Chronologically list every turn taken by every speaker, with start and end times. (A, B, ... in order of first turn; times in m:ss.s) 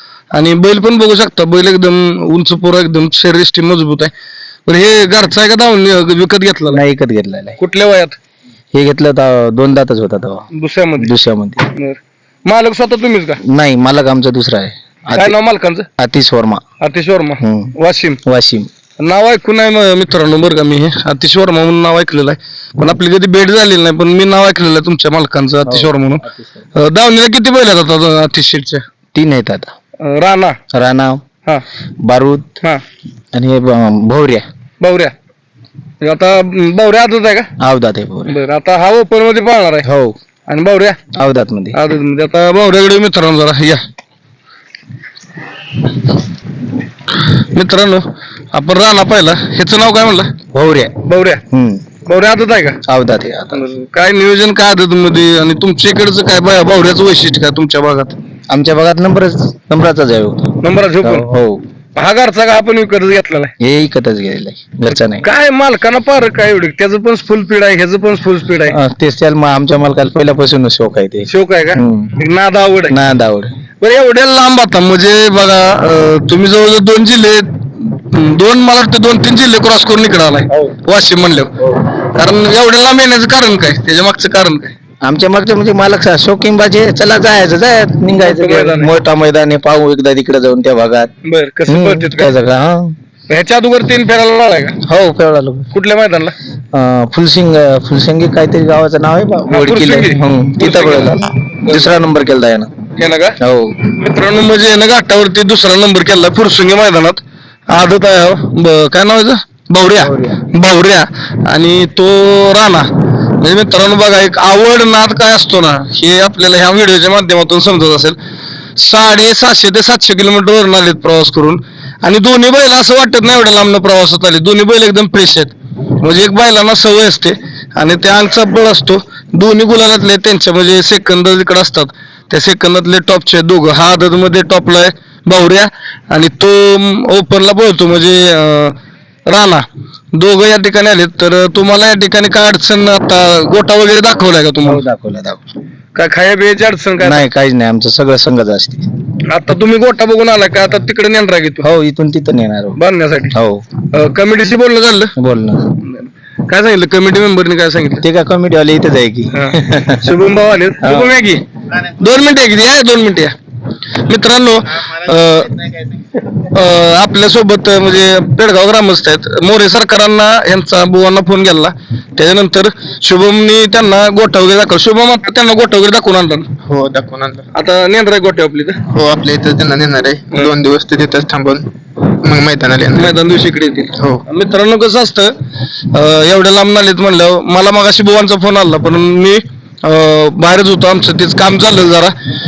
0:00.3-0:04.1 A
0:04.6-0:06.8 A
0:06.7-0:07.6 B
0:07.6-0:08.2 A
0:08.7-0:11.6 B
0:10.5-0:11.1 A
0:11.7-0:13.4 A
0:13.4-0:15.4 B
0:15.1-0:15.9 A
0:16.0-0:16.6 B
0:16.8-0:18.2 A
0:17.4-0:17.7 B
0:18.2-0:18.7 B
0:19.0-0:28.8 A
0:25.6-0:26.6 B
0:29.1-0:29.7 B
0:30.0-0:30.6 A
0:30.7-0:31.2 B
0:32.0-0:32.6 B
0:33.3-0:34.4 B
0:34.8-0:35.1 A
0:36.0-0:37.5 A
0:37.6-0:38.4 B
0:38.3-0:39.8 A
0:39.8-0:40.2 B
0:40.5-0:41.0 A
0:41.1-0:41.8 B
0:41.7-0:43.8 A
0:47.1-0:50.3 A
0:50.5-0:51.0 B
0:51.0-0:51.4 A
0:51.5-0:51.8 B
0:52.0-0:52.8 A
0:52.8-0:53.6 B
0:53.5-0:58.2 A
0:58.5-1:01.6 B
1:00.6-1:01.3 A
1:01.9-1:03.5 A
1:03.6-1:05.3 B
1:04.9-1:08.8 A
1:08.7-1:12.1 B
1:11.3-1:13.0 A
1:12.9-1:13.5 B
1:13.8-1:24.7 A
1:25.0-1:31.1 B
1:28.2-1:28.9 A
1:31.2-1:32.3 A
1:31.7-1:33.0 B
1:33.3-1:34.8 A
1:34.8-1:35.7 B
1:35.7-1:36.4 A
1:36.7-1:42.7 B
1:39.5-1:41.9 A
1:42.9-1:58.2 A
1:43.4-1:43.8 B
1:50.0-1:50.4 B
1:58.8-2:24.8 A
2:24.6-2:25.4 B
2:25.9-2:27.2 A
2:27.0-2:28.8 B
2:29.3-2:31.6 A
2:31.6-2:32.8 B
2:32.8-2:33.3 A
2:33.3-2:33.6 B
2:33.9-2:35.1 A
2:35.2-2:35.8 B
2:35.8-2:38.0 A
2:38.0-2:40.2 B
2:39.3-2:43.3 A
2:40.8-2:41.1 B
2:44.0-2:56.5 A
2:56.6-2:57.5 C
2:57.5-2:58.8 A
2:58.8-3:03.1 C
3:02.9-3:05.3 A
3:04.0-3:04.2 C
3:05.9-3:12.1 A